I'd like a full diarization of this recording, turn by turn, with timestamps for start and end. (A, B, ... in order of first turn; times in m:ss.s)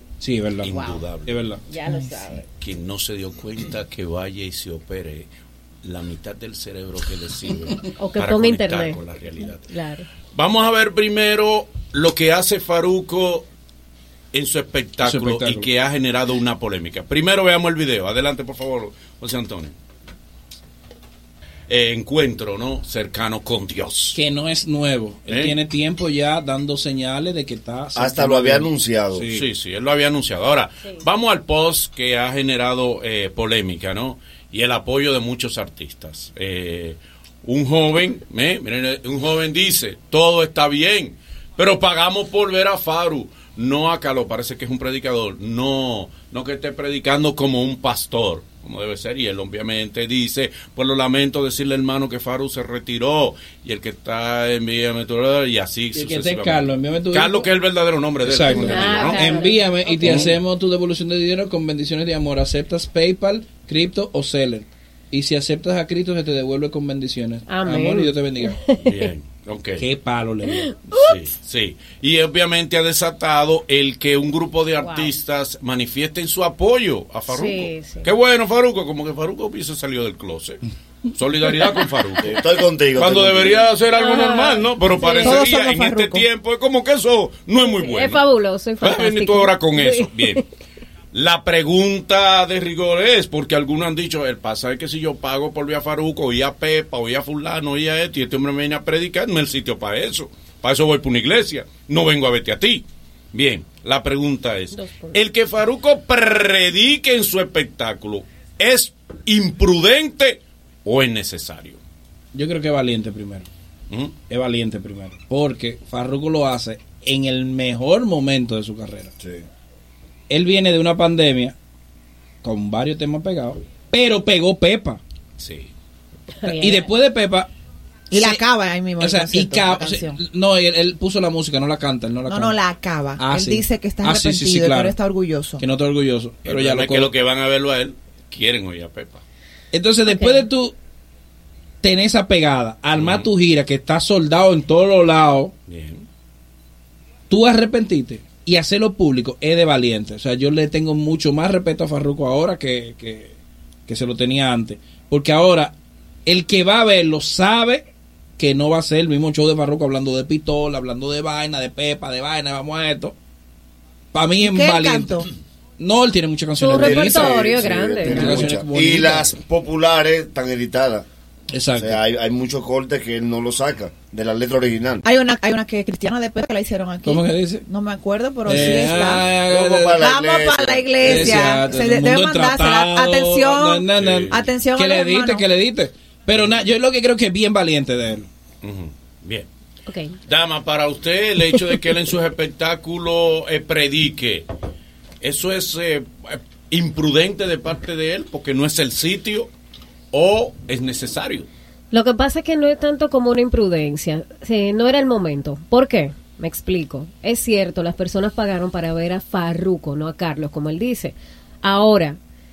0:00.2-0:01.6 A
0:00.6-0:01.4 B
0:01.7-0:02.4 C
0:01.8-0:02.4 D
0:02.6-0:05.3 B
0:05.8-0:09.7 B
0:08.0-0:10.1 C
0:10.3-0:13.5 B
0:14.3-0:19.7 B
0:15.0-0:15.7 A
0:21.7-0:24.2 B
0:24.1-0:29.4 A
0:25.3-0:25.5 B
0:27.9-0:29.3 E
0:29.3-0:59.4 B
0:55.9-0:57.5 A
0:58.2-1:08.6 A
0:58.4-1:00.2 C
1:00.0-1:00.4 B
1:07.5-1:09.1 C
1:08.8-1:09.8 B
1:09.8-1:10.7 A
1:10.4-1:11.1 C
1:10.9-1:22.4 B
1:14.8-1:15.1 C
1:17.3-1:18.1 C
1:22.2-1:23.7 E
1:22.9-1:28.2 B
1:23.9-1:25.4 C
1:25.2-1:26.2 D
1:27.6-1:30.4 C
1:28.8-1:30.4 B
1:31.1-1:51.8 B
1:44.7-1:45.1 C
1:52.3-1:53.5 A
1:54.2-1:59.1 A
2:00.3-2:01.6 A
2:02.4-2:05.0 A
2:05.4-2:05.7 B
2:06.4-2:06.9 C
2:06.4-2:07.5 A
2:08.1-2:10.2 D
2:08.1-2:08.4 A
2:09.0-2:12.6 A
2:12.2-2:15.6 D
2:13.2-2:15.0 A
2:15.6-2:17.1 A
2:16.4-2:19.2 B
2:19.7-2:20.7 A
2:20.0-2:20.5 C
2:21.8-2:25.5 A
2:23.0-2:23.3 B
2:25.7-2:26.0 B
2:27.3-2:33.3 A
2:33.9-2:37.9 A
2:38.4-2:43.1 A
2:44.1-2:45.2 A
2:44.4-2:45.3 D
2:45.8-2:47.5 A
2:46.6-2:48.4 C
2:46.7-2:51.0 E
2:48.0-2:49.4 A
2:51.5-2:52.0 A
2:51.8-2:55.0 E
2:55.0-2:59.3 D
2:57.0-2:57.6 A
2:58.4-3:00.0 A
2:59.3-3:01.4 E
3:00.0-3:05.5 D
3:01.0-3:08.3 A
3:04.0-3:04.4 B
3:08.6-3:09.5 B
3:09.8-3:10.1 C
3:10.2-3:14.5 B
3:15.2-3:19.5 B
3:20.1-3:21.5 B
3:21.9-3:32.2 C